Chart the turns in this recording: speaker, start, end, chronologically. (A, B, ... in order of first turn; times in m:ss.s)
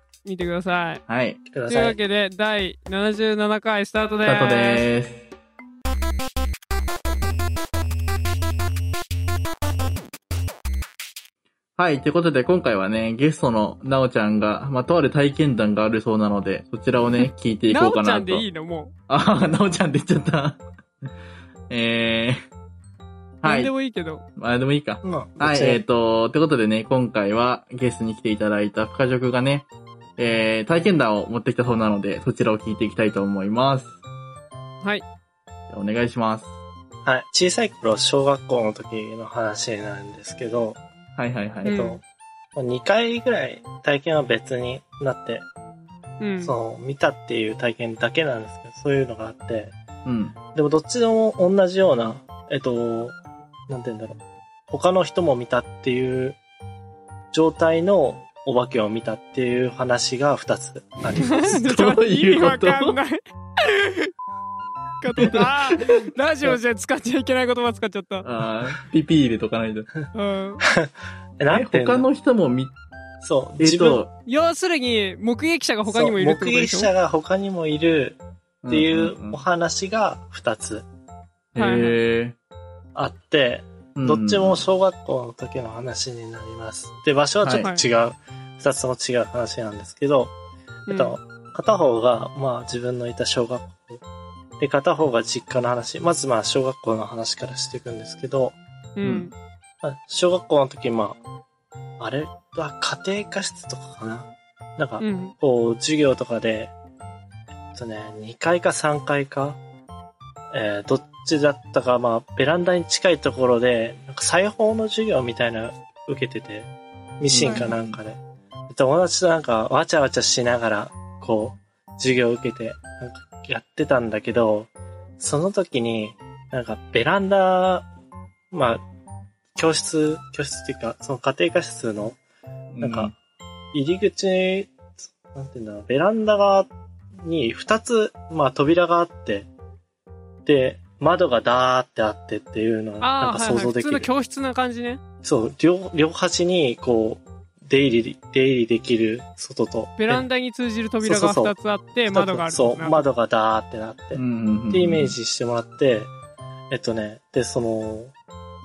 0:00.2-0:01.0 A
0:01.1-0:01.4 B
0:01.5-0:02.0 C
0:01.7-0:04.8 A
0:04.2-0:05.2 B
0:11.8-0:18.5 B
0:17.7-0:18.9 A
0:19.1-0:20.6 B
0:21.7-0:22.4 B
0:23.4-0:23.7 B
0:23.4-0:24.2 A
0:24.4-0:29.7 B
0:25.0-0:25.8 C
0:30.2-0:33.9 B
0:35.7-0:36.5 B
0:37.0-0:40.8 C
0:41.2-0:41.8 B
0:41.6-0:42.0 A
0:41.6-0:42.0 C
0:42.6-0:45.5 C
0:46.2-0:46.5 A
0:46.4-0:49.8 C
0:50.0-0:50.4 B
0:50.5-0:53.2 C
0:53.7-0:56.4 C
0:57.3-1:01.6 C
1:01.2-1:04.1 A
1:01.4-1:03.0 B
1:05.0-1:08.3 A
1:05.2-1:06.0 B
1:08.2-1:09.9 B
1:10.1-1:10.6 A
1:10.7-1:12.1 C
1:11.5-1:12.7 B
1:13.2-1:14.0 C
1:13.6-1:14.1 B
1:14.3-1:16.9 A
1:15.9-1:20.8 C
1:18.6-1:19.4 B
1:21.5-1:22.4 B
1:21.6-1:22.0 A
1:23.0-1:30.3 C
1:24.0-1:24.6 B
1:27.4-1:27.7 B
1:27.6-1:27.8 A
1:30.9-1:31.2 A
1:30.9-1:34.0 C
1:34.6-1:38.6 C
1:39.0-1:39.3 A
1:39.0-1:39.3 B
1:39.8-1:41.2 C
1:42.0-1:46.7 C
1:45.0-1:45.3 A
1:47.7-1:49.6 C
1:50.5-2:07.9 C
1:57.3-1:58.0 B
1:57.4-1:57.7 A
2:08.5-2:08.8 C
2:09.6-2:12.2 C
2:12.7-2:13.1 B
2:12.8-2:13.1 C
2:13.7-2:14.8 C
2:15.3-2:16.7 C
2:17.2-2:19.5 C
2:20.4-2:24.1 C
2:23.0-2:25.0 A
2:25.2-2:30.3 C
2:30.0-2:33.1 A
2:31.0-2:31.5 C
2:32.1-2:36.1 C
2:34.1-2:35.2 B
2:36.7-2:38.1 C